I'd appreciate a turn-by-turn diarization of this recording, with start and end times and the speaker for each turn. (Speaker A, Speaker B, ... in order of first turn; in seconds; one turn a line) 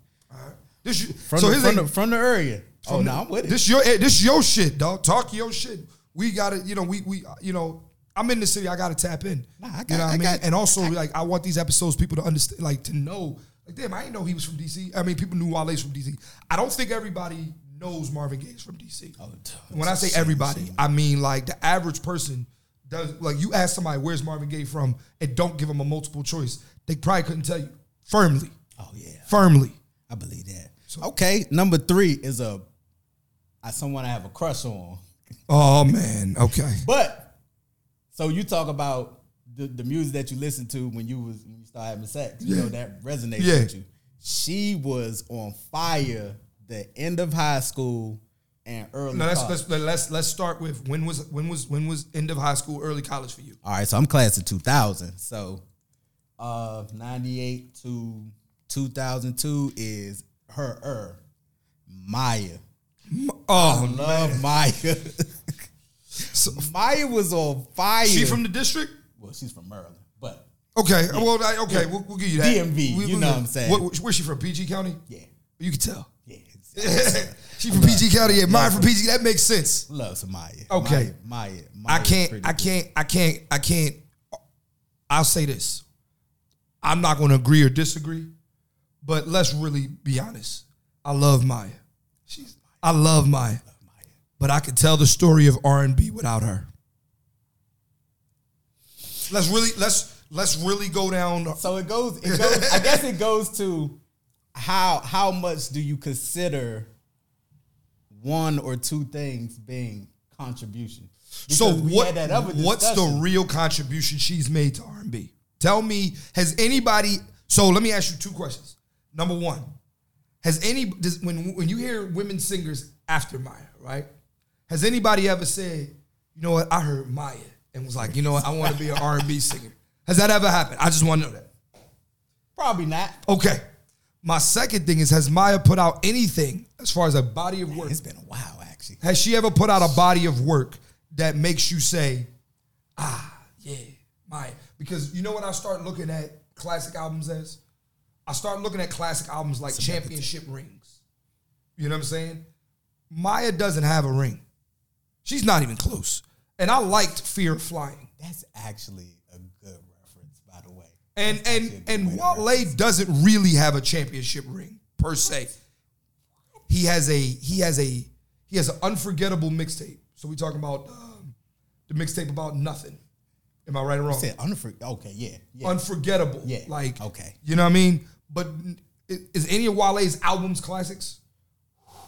Speaker A: 0.3-1.9
Speaker B: 1.3-3.6
Speaker A: 2.8-19.1
Speaker B: 9.6-10.9
Speaker B: 19.2-20.8
Speaker A: 19.7-28.5
Speaker B: 28.8-29.4
Speaker A: 29.3-29.7
Speaker B: 30.1-32.6
Speaker B: 33.6-35.0
Speaker A: 35.5-36.8
Speaker B: 36.8-37.3
Speaker B: 38.1-49.6
Speaker A: 42.4-42.7
Speaker A: 43.4-43.7
Speaker A: 49.1-53.6
Speaker B: 53.6-55.6
Speaker B: 56.4-61.2
Speaker B: 61.9-62.6
Speaker A: 63.1-64.5
Speaker B: 63.5-65.7
Speaker B: 66.2-68.4
Speaker A: 66.2-66.7
Speaker A: 68.0-69.0
Speaker B: 69.2-70.5
Speaker A: 70.7-75.0
Speaker B: 71.1-73.9
Speaker A: 75.6-76.1
Speaker B: 76.2-78.9
Speaker A: 76.8-79.9
Speaker B: 79.9-82.8
Speaker A: 80.7-81.1
Speaker A: 81.9-84.0
Speaker A: 85.1-85.8
Speaker A: 86.8-88.3
Speaker A: 89.0-93.6
Speaker B: 93.6-94.1
Speaker A: 94.4-96.7
Speaker A: 99.3-101.6
Speaker B: 101.6-104.0
Speaker A: 102.2-103.0
Speaker B: 104.5-106.9
Speaker B: 108.1-113.2
Speaker A: 111.5-119.7
Speaker A: 120.4-124.1
Speaker A: 124.7-131.5
Speaker B: 128.1-128.9
Speaker B: 132.6-133.2
Speaker A: 133.2-133.6
Speaker A: 134.2-138.0
Speaker B: 137.7-139.0
Speaker A: 139.0-142.3
Speaker A: 143.0-147.6
Speaker A: 148.2-150.9
Speaker B: 149.7-150.3
Speaker A: 151.8-152.4
Speaker A: 153.1-154.4
Speaker A: 155.2-158.1
Speaker B: 158.2-162.8
Speaker A: 161.1-165.5
Speaker A: 166.7-171.3
Speaker A: 171.9-173.0
Speaker A: 173.7-174.3
Speaker B: 174.1-175.8
Speaker A: 175.6-181.2
Speaker B: 176.4-177.4